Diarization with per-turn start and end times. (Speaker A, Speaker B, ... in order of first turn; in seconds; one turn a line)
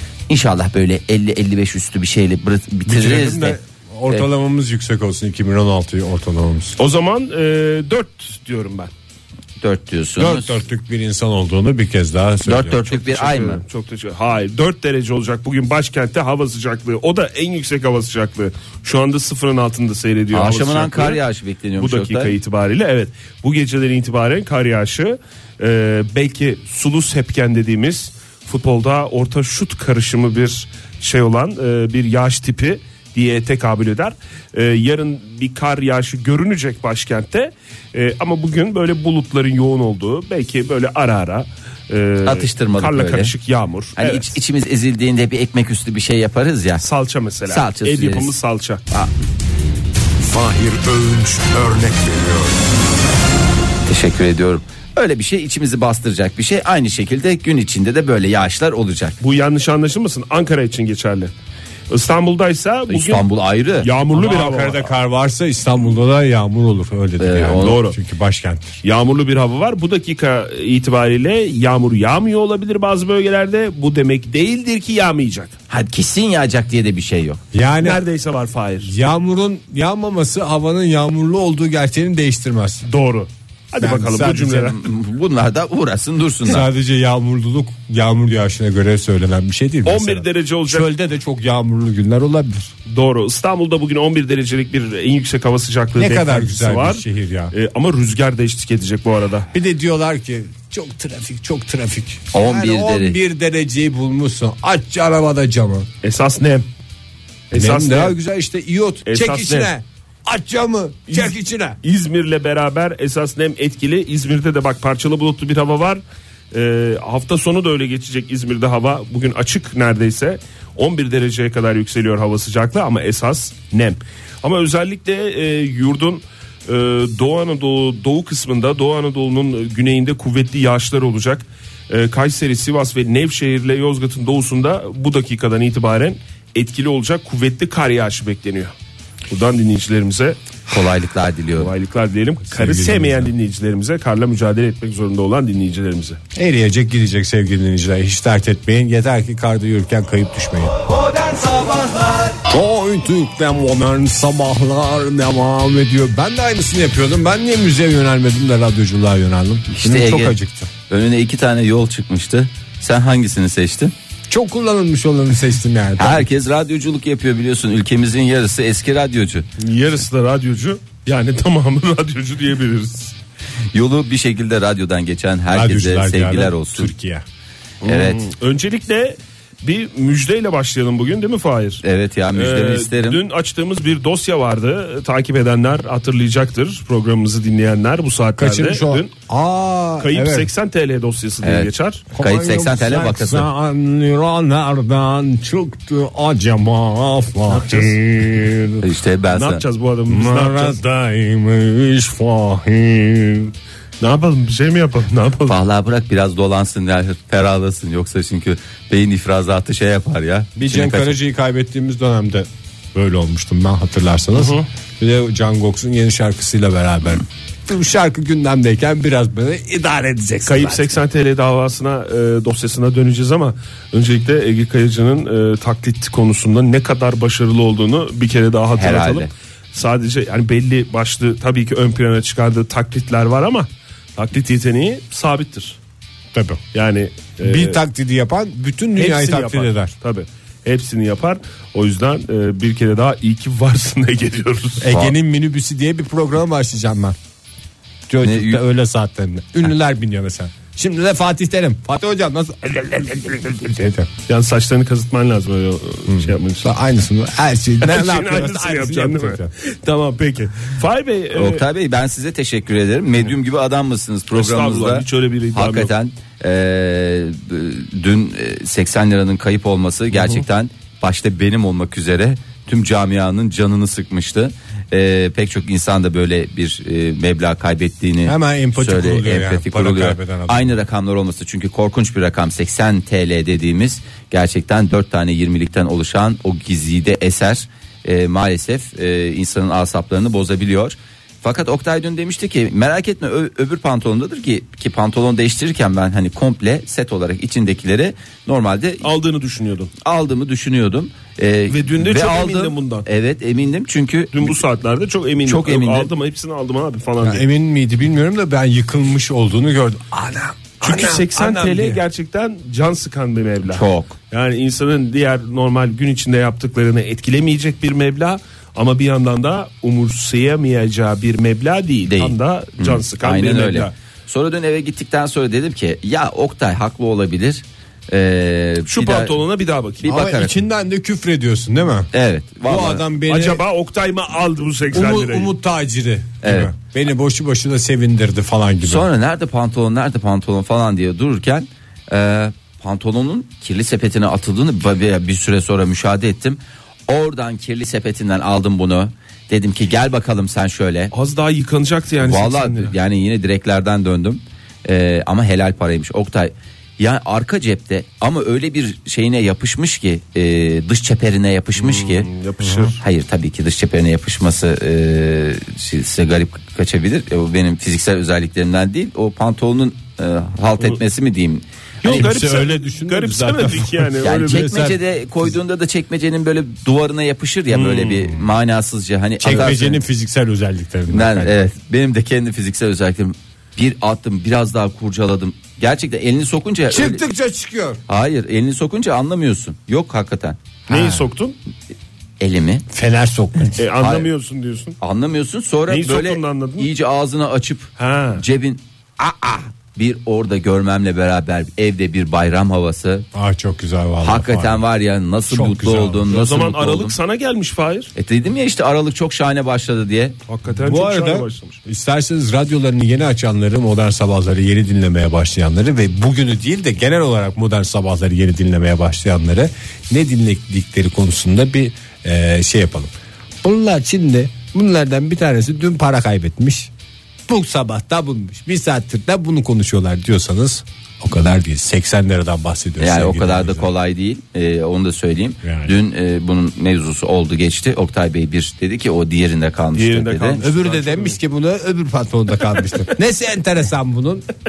Speaker A: 0.3-3.6
Speaker B: 2.9-6.8
Speaker C: 6.8-8.9
Speaker A: 9.6-10.6
Speaker B: 10.2-12.9
Speaker A: 12.4-13.6
Speaker C: 12.9-21.2
Speaker A: 20.3-22.4
Speaker C: 21.8-44.3
Speaker A: 42.2-43.3
Speaker A: 44.0-46.8
Speaker C: 46.8-48.8
Speaker A: 47.5-48.4
Speaker D: 50.2-52.6
Speaker A: 53.9-59.2
Speaker C: 59.2-61.3
Speaker C: 61.9-63.2
Speaker A: 62.9-63.9
Speaker C: 63.8-64.9
Speaker B: 64.1-68.8
Speaker A: 67.2-67.8
Speaker C: 67.6-68.0
Speaker C: 68.8-75.6
Speaker A: 75.7-77.4
Speaker B: 77.5-78.0
Speaker C: 77.8-78.9
Speaker B: 78.8-82.9
Speaker C: 82.9-84.8
Speaker B: 83.8-84.7
Speaker A: 84.6-86.7
Speaker B: 86.5-92.7
Speaker C: 89.8-90.9
Speaker C: 92.9-99.5
Speaker B: 96.0-97.5
Speaker B: 99.5-105.9
Speaker A: 102.3-103.2
Speaker C: 106.0-106.7
Speaker C: 107.5-108.2
Speaker B: 107.5-111.8
Speaker C: 109.1-109.7
Speaker C: 111.1-138.7
Speaker C: 139.3-140.4
Speaker A: 140.7-141.7
Speaker C: 141.6-146.2
Speaker B: 142.5-143.3
Speaker B: 146.3-150.8
Speaker D: 150.8-152.4
Speaker B: 152.5-160.7
Speaker A: 159.7-160.4
Speaker A: 160.9-163.9
Speaker B: 164.3-166.3
Speaker A: 166.0-169.5
Speaker C: 169.6-173.1
Speaker A: 173.7-176.9
Speaker B: 175.5-177.2
Speaker C: 177.8-181.8
Speaker A: 177.9-178.2
Speaker A: 181.8-183.2
Speaker C: 182.3-189.1
Speaker B: 188.4-190.5
Speaker C: 190.0-192.1
Speaker A: 191.4-193.5
Speaker B: 192.1-198.8
Speaker C: 197.5-197.9
Speaker A: 198.8-199.7
Speaker C: 199.3-200.8
Speaker B: 200.1-203.5
Speaker C: 204.0-205.6
Speaker A: 205.5-211.2
Speaker B: 210.6-221.0
Speaker C: 214.3-214.7
Speaker C: 220.5-235.8
Speaker A: 228.8-229.3
Speaker B: 236.3-236.6
Speaker C: 236.7-237.8
Speaker B: 237.4-239.9
Speaker C: 239.0-244.9
Speaker B: 244.8-247.2
Speaker B: 248.1-254.1
Speaker A: 248.2-248.6
Speaker C: 254.3-256.7
Speaker B: 256.1-259.5
Speaker C: 257.8-261.6
Speaker A: 261.3-299.1
Speaker C: 264.3-265.9
Speaker B: 278.2-280.8
Speaker C: 299.0-299.9
Speaker A: 300.0-304.6
Speaker C: 301.7-303.1
Speaker C: 304.3-307.4
Speaker A: 305.4-306.1
Speaker B: 307.2-312.0
Speaker C: 310.8-323.9
Speaker A: 313.7-314.1
Speaker A: 322.1-329.4
Speaker C: 328.9-330.2
Speaker A: 330.0-330.6
Speaker B: 330.1-332.1
Speaker A: 332.1-333.0
Speaker B: 332.6-333.6
Speaker C: 333.3-335.5
Speaker B: 334.9-339.1
Speaker A: 336.4-336.7
Speaker A: 338.8-351.1
Speaker C: 351.1-352.9
Speaker A: 352.2-362.3
Speaker C: 361.8-363.0
Speaker B: 362.6-362.9
Speaker A: 363.0-371.6
Speaker C: 372.0-374.7
Speaker B: 372.0-375.0
Speaker A: 374.2-380.0
Speaker C: 377.7-378.4
Speaker B: 379.4-381.6
Speaker A: 381.1-387.2
Speaker B: 386.9-388.0
Speaker A: 388.1-390.6
Speaker B: 390.9-391.3
Speaker C: 390.9-391.6
Speaker A: 392.4-392.8
Speaker B: 392.9-393.8
Speaker C: 393.8-395.0
Speaker A: 394.0-394.3
Speaker A: 395.0-403.3
Speaker C: 395.9-396.9
Speaker C: 398.0-398.4
Speaker B: 403.3-404.8
Speaker A: 404.2-407.1
Speaker B: 405.5-406.3
Speaker C: 406.3-408.1
Speaker A: 408.2-410.4
Speaker C: 410.5-411.8
Speaker B: 410.7-426.9
Speaker B: 427.5-433.9
Speaker A: 433.0-440.6
Speaker B: 435.6-435.9
Speaker C: 439.9-441.4
Speaker B: 440.6-444.5